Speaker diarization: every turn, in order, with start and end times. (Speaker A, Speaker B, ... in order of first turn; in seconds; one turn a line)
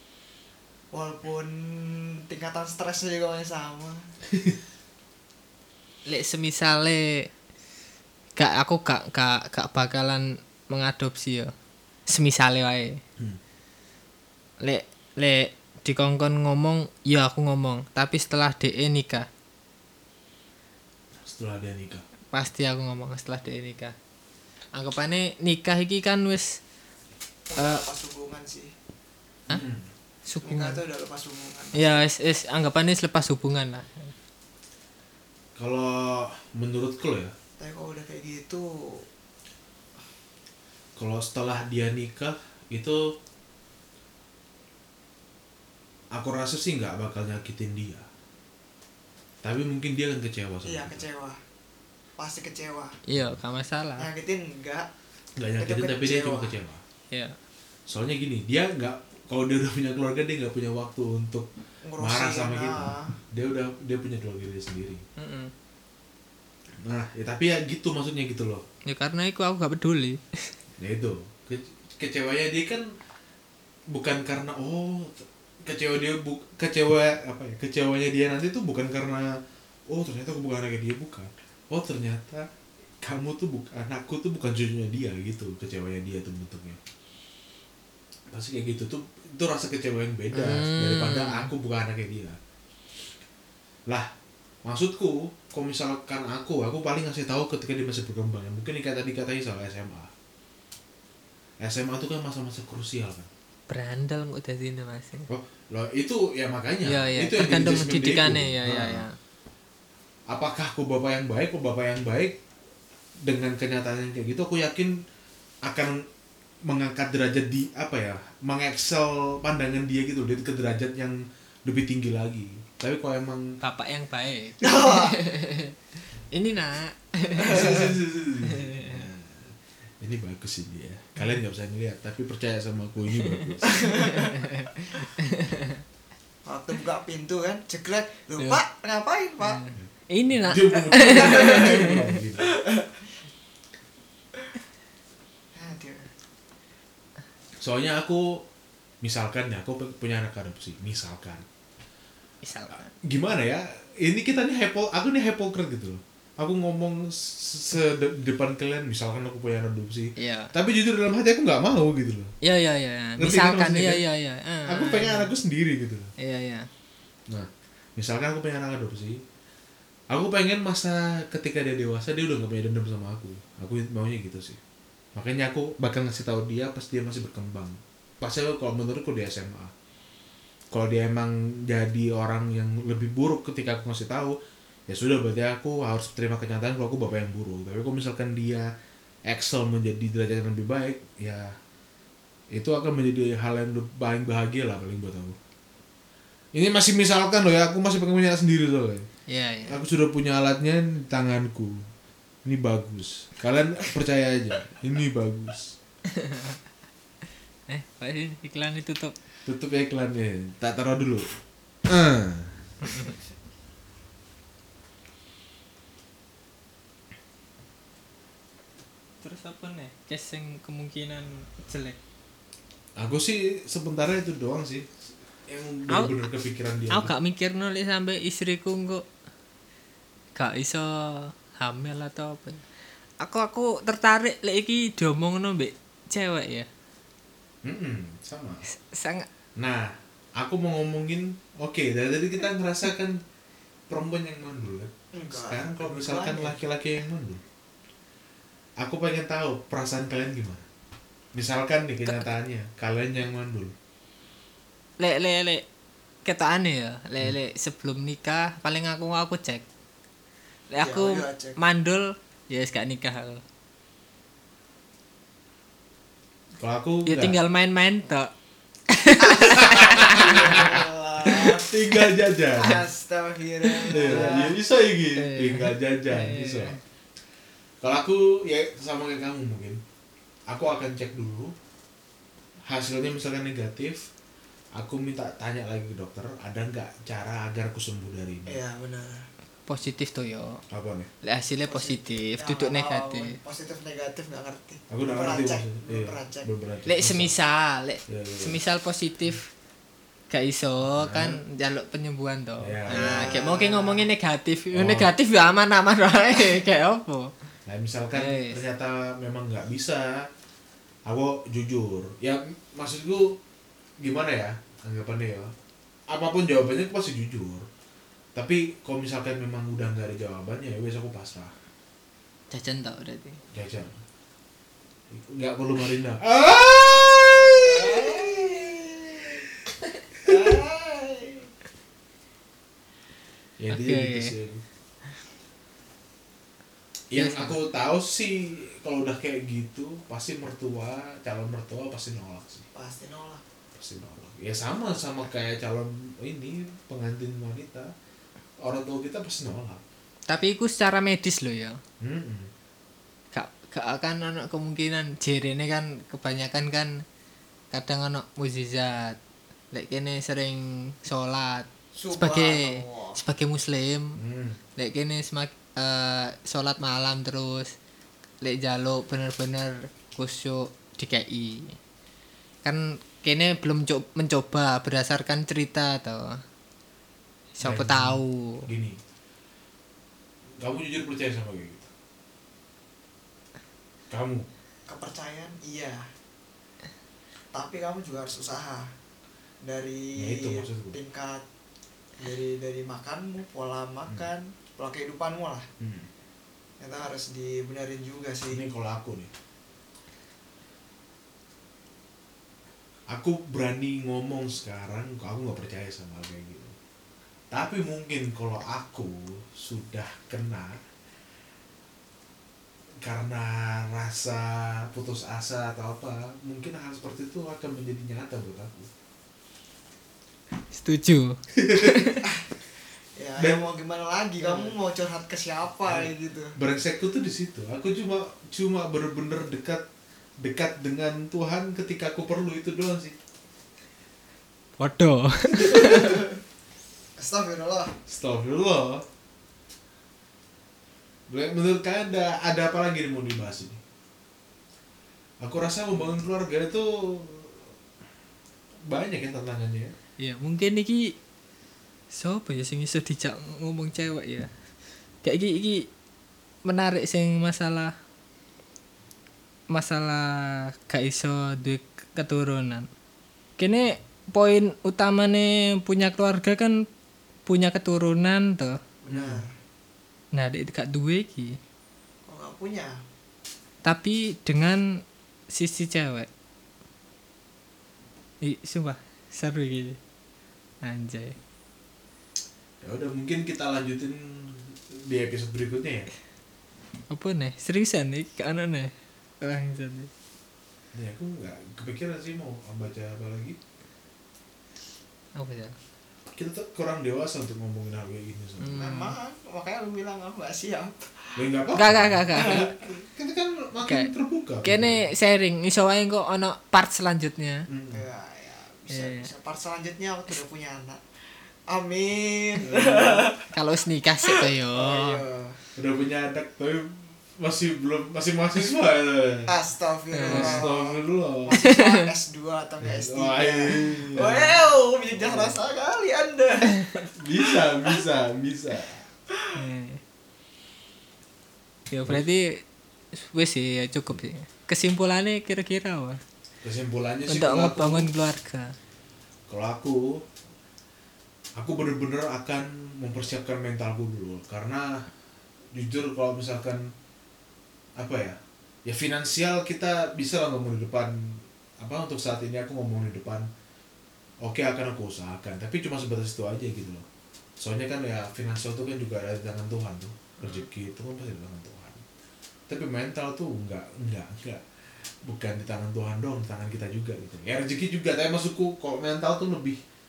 Speaker A: 0.9-4.1
Speaker B: 6.1-7.3
Speaker B: 8.4-11.5
Speaker B: 12.1-13.0
Speaker B: 14.6-19.3
Speaker C: 21.1-22.1
Speaker B: 22.3-23.9
Speaker B: 24.7-26.6
Speaker A: 27.5-28.7
Speaker B: 27.6-27.8
Speaker C: 29.5-29.9
Speaker B: 30.3-30.8
Speaker A: 30.4-32.0
Speaker B: 31.8-34.1
Speaker C: 35.5-37.3
Speaker A: 37.6-39.1
Speaker C: 41.0-43.1
Speaker C: 46.1-48.1
Speaker C: 49.4-51.0
Speaker A: 50.6-51.4
Speaker A: 52.2-53.0
Speaker B: 53.1-54.1
Speaker A: 54.0-54.9
Speaker C: 55.4-56.8
Speaker A: 55.6-56.5
Speaker B: 57.1-57.4
Speaker C: 57.9-65.0
Speaker A: 61.8-63.1
Speaker B: 65.2-65.5
Speaker C: 66.8-68.6
Speaker B: 68.9-70.5
Speaker C: 70.8-72.9
Speaker C: 73.9-79.4
Speaker C: 79.9-82.5
Speaker C: 83.0-86.8
Speaker C: 88.3-92.4
Speaker B: 90.3-91.5
Speaker C: 94.6-100.1
Speaker C: 101.6-103.3
Speaker B: 103.7-105.3
Speaker C: 105.3-109.0
Speaker B: 106.8-109.1
Speaker C: 110.3-112.4
Speaker C: 113.2-115.0
Speaker C: 115.6-116.1
Speaker C: 116.6-123.6
Speaker B: 123.6-125.7
Speaker A: 124.6-125.2
Speaker B: 126.3-127.9
Speaker A: 127.4-127.8
Speaker C: 127.5-133.8
Speaker B: 128.4-129.0
Speaker A: 133.7-134.4
Speaker B: 133.9-135.8
Speaker A: 136.4-139.6
Speaker B: 139.4-142.0
Speaker C: 139.7-142.5
Speaker A: 141.1-143.1
Speaker A: 145.6-146.1
Speaker C: 147.6-148.5
Speaker C: 149.0-151.4
Speaker B: 152.4-152.9
Speaker C: 152.7-162.3
Speaker B: 160.2-160.5
Speaker B: 162.4-165.3
Speaker C: 163.2-164.0
Speaker C: 164.7-166.1
Speaker B: 166.2-166.7
Speaker C: 167.3-169.2
Speaker C: 170.1-174.6
Speaker C: 175.1-179.7
Speaker C: 180.7-188.7
Speaker C: 189.2-191.6
Speaker C: 192.5-195.4
Speaker C: 196.5-199.1
Speaker B: 199.3-199.8
Speaker C: 199.7-201.9
Speaker C: 202.4-205.8
Speaker B: 206.1-206.6
Speaker B: 207.7-209.1
Speaker C: 209.4-211.2
Speaker C: 211.9-212.6
Speaker B: 219.2-222.0
Speaker C: 223.0-227.1
Speaker B: 226.9-229.1
Speaker B: 230.4-232.6
Speaker B: 233.2-236.7
Speaker C: 237.6-238.6
Speaker B: 238.7-239.3
Speaker C: 239.6-243.2
Speaker C: 243.9-247.4
Speaker A: 245.1-246.6
Speaker C: 248.8-250.6
Speaker C: 251.3-253.7
Speaker B: 255.0-255.6
Speaker B: 256.2-259.6
Speaker B: 260.7-263.4
Speaker A: 260.8-261.6
Speaker C: 266.6-267.4
Speaker B: 267.1-268.3
Speaker B: 268.9-270.8
Speaker C: 269.3-270.8
Speaker A: 269.9-271.7
Speaker C: 271.4-272.8
Speaker A: 272.6-274.6
Speaker B: 273.6-274.5
Speaker C: 273.9-276.8
Speaker B: 275.1-276.8
Speaker C: 277.8-279.8
Speaker C: 280.5-281.5
Speaker C: 282.7-284.1
Speaker C: 284.8-288.6
Speaker A: 288.5-289.3
Speaker B: 289.7-290.6
Speaker C: 290.7-291.1
Speaker B: 291.2-293.4
Speaker A: 291.7-296.5
Speaker C: 294.9-297.3
Speaker B: 296.9-299.5
Speaker C: 298.1-298.6
Speaker B: 300.3-307.3
Speaker C: 300.8-301.4
Speaker C: 302.6-303.3
Speaker A: 302.9-304.1
Speaker C: 304.7-305.1
Speaker C: 307.6-310.3
Speaker B: 308.1-308.6
Speaker C: 311.1-313.4
Speaker C: 314.0-315.5
Speaker C: 316.1-317.7
Speaker C: 318.3-321.5
Speaker B: 322.5-323.4
Speaker C: 323.5-324.0
Speaker C: 325.1-328.6
Speaker A: 327.7-329.4
Speaker C: 330.2-330.6
Speaker A: 330.2-331.5
Speaker C: 333.6-334.6
Speaker B: 333.7-334.3
Speaker C: 337.1-342.6
Speaker B: 337.1-337.6
Speaker A: 342.7-343.4
Speaker C: 343.8-347.9
Speaker C: 348.6-349.8
Speaker B: 350.3-351.8
Speaker C: 352.0-352.5
Speaker B: 353.3-356.9
Speaker B: 357.7-359.2
Speaker B: 359.7-364.1
Speaker A: 361.9-363.2
Speaker C: 364.2-364.6
Speaker B: 364.8-367.7
Speaker B: 368.4-371.8
Speaker B: 372.6-376.4
Speaker B: 377.6-378.6
Speaker C: 377.6-379.0
Speaker C: 380.6-381.9
Speaker C: 384.1-384.4
Speaker A: 384.9-386.1
Speaker A: 387.5-388.9
Speaker A: 389.6-391.4
Speaker C: 390.2-391.0
Speaker A: 392.2-395.7
Speaker C: 395.8-396.1
Speaker A: 396.8-398.6
Speaker C: 398.5-399.3
Speaker C: 403.1-406.7
Speaker C: 407.5-410.8
Speaker C: 413.0-418.9
Speaker B: 420.7-422.2
Speaker C: 421.5-422.2
Speaker A: 422.2-422.5
Speaker A: 423.2-426.6
Speaker C: 423.4-423.6
Speaker C: 425.9-429.9
Speaker C: 430.4-433.1
Speaker B: 434.8-436.2
Speaker A: 435.7-436.3
Speaker A: 437.2-437.9
Speaker C: 438.1-439.1
Speaker C: 441.3-443.8
Speaker C: 445.4-447.7
Speaker C: 448.9-449.9
Speaker B: 450.2-451.1
Speaker B: 452.1-454.5
Speaker B: 455.2-455.9
Speaker B: 456.6-457.9
Speaker B: 459.7-462.9
Speaker B: 463.6-466.8
Speaker B: 467.4-468.8
Speaker A: 469.0-469.6
Speaker C: 469.1-469.4
Speaker B: 470.3-471.6
Speaker A: 472.2-473.0
Speaker B: 473.8-474.8
Speaker B: 475.5-476.3
Speaker B: 478.4-480.0
Speaker B: 480.8-481.4
Speaker C: 482.8-486.1
Speaker B: 487.1-490.1
Speaker C: 490.9-493.6
Speaker B: 495.4-495.8
Speaker C: 496.3-498.9
Speaker B: 498.6-499.1
Speaker A: 498.8-501.5
Speaker C: 501.4-505.1
Speaker B: 501.7-502.7
Speaker A: 502.3-503.0
Speaker B: 503.8-504.1
Speaker B: 504.6-507.7
Speaker C: 507.7-508.0
Speaker A: 507.9-513.5
Speaker B: 508.9-509.3
Speaker C: 512.6-513.3
Speaker B: 513.5-515.2
Speaker A: 514.2-515.6
Speaker C: 515.8-519.5
Speaker A: 519.5-528.0
Speaker B: 520.1-520.6
Speaker C: 520.3-521.5
Speaker C: 522.8-524.5
Speaker B: 524.2-524.5
Speaker C: 525.1-525.6
Speaker C: 527.2-529.0
Speaker B: 529.5-530.0
Speaker B: 531.9-532.6
Speaker B: 533.1-536.2
Speaker C: 536.6-538.1
Speaker B: 537.3-538.8
Speaker C: 539.5-540.2
Speaker C: 541.5-545.1
Speaker C: 545.7-546.9
Speaker C: 548.0-553.5
Speaker C: 554.4-557.1
Speaker C: 557.6-562.0
Speaker C: 562.7-569.8